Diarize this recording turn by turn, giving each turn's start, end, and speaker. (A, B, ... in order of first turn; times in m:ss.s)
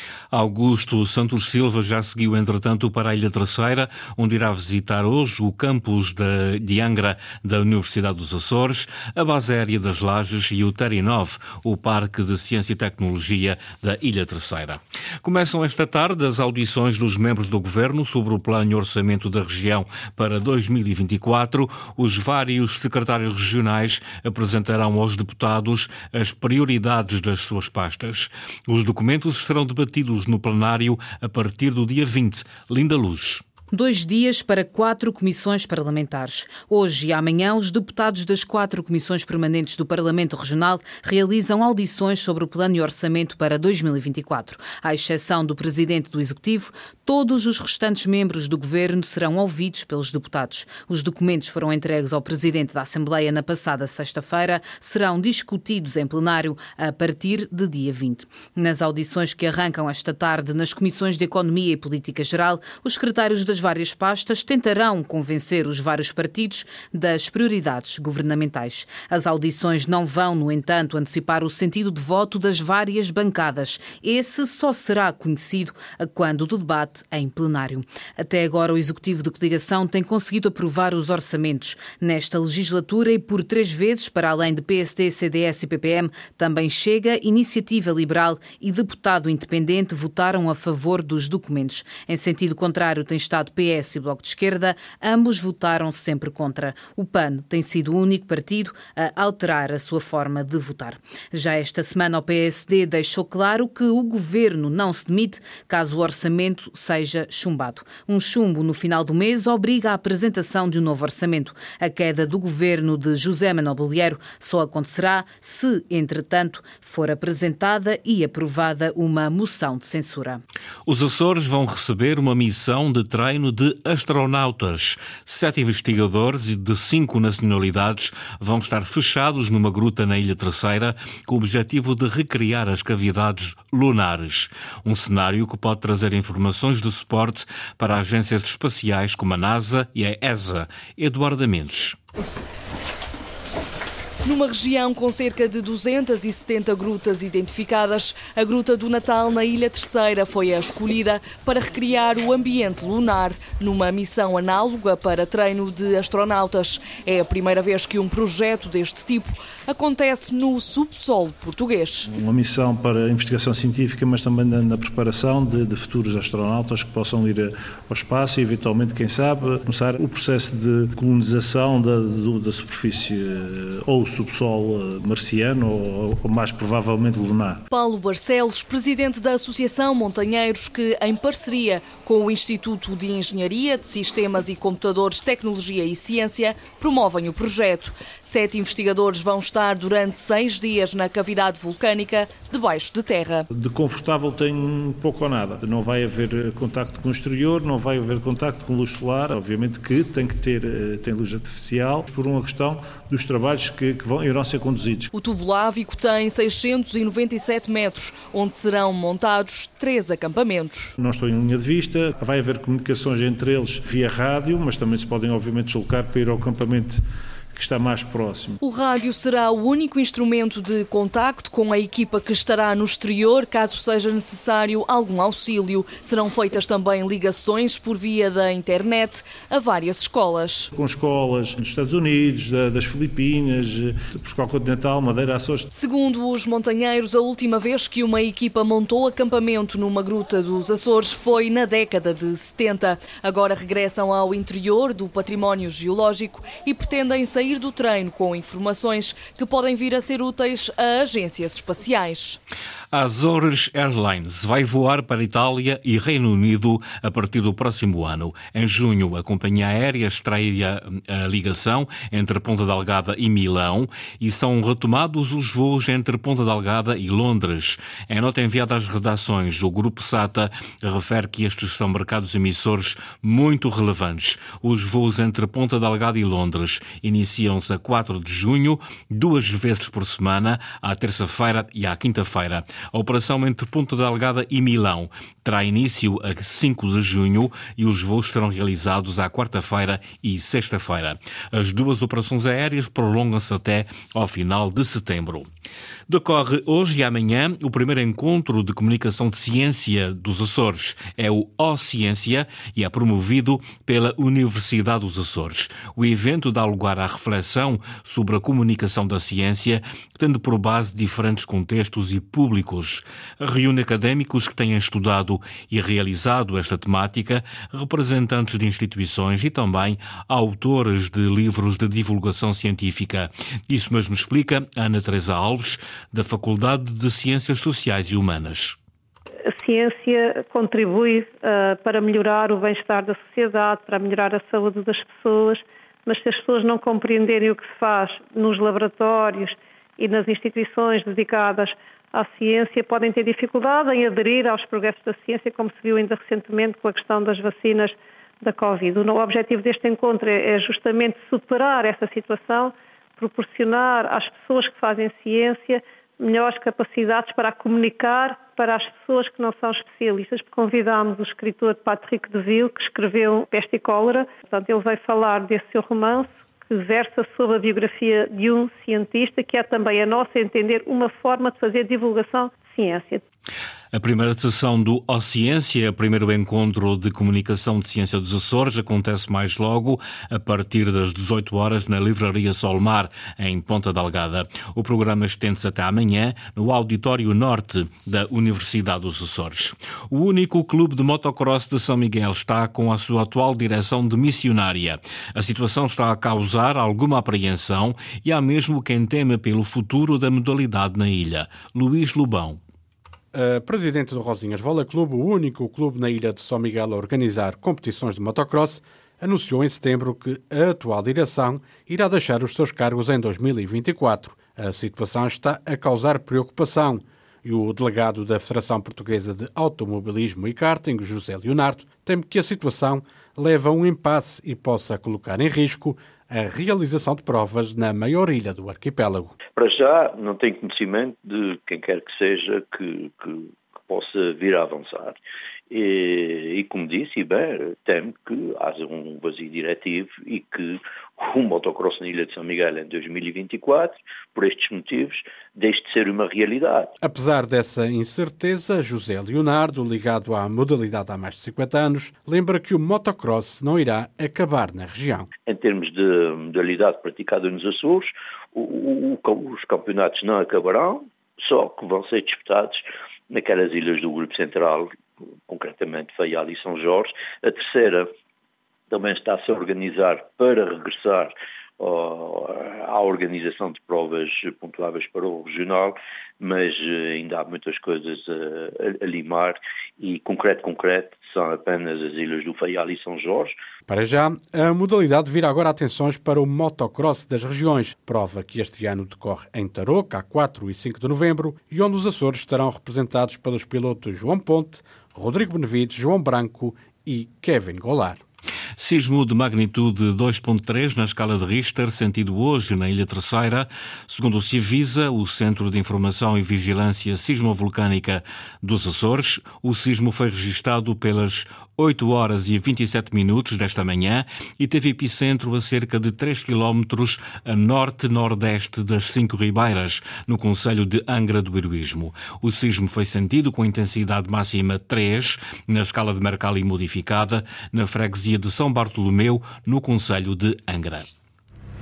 0:00.3-0:33.4 A
0:33.7-2:00.4 B
2:00.8-2:22.0 A
2:24.2-2:42.1 C
2:42.1-2:57.6 D
2:57.7-3:13.4 C
3:13.5-3:25.1 D
3:25.1-3:30.9 C
3:31.0-3:37.0 D
3:37.5-3:38.6 D
3:38.6-3:50.7 C
3:50.7-3:55.7 D
3:55.7-4:12.4 C
4:12.9-4:55.4 A
4:56.1-5:28.8 A
5:29.4-6:13.2 E
6:13.9-6:42.6 A
6:43.3-7:09.3 F
7:09.5-7:15.2 G
7:15.7-7:26.9 G
7:27.0-7:35.3 F
7:35.4-7:44.9 G
7:45.5-7:48.1 G
7:48.9-8:03.6 G
8:03.9-8:18.2 F
8:18.8-8:51.1 A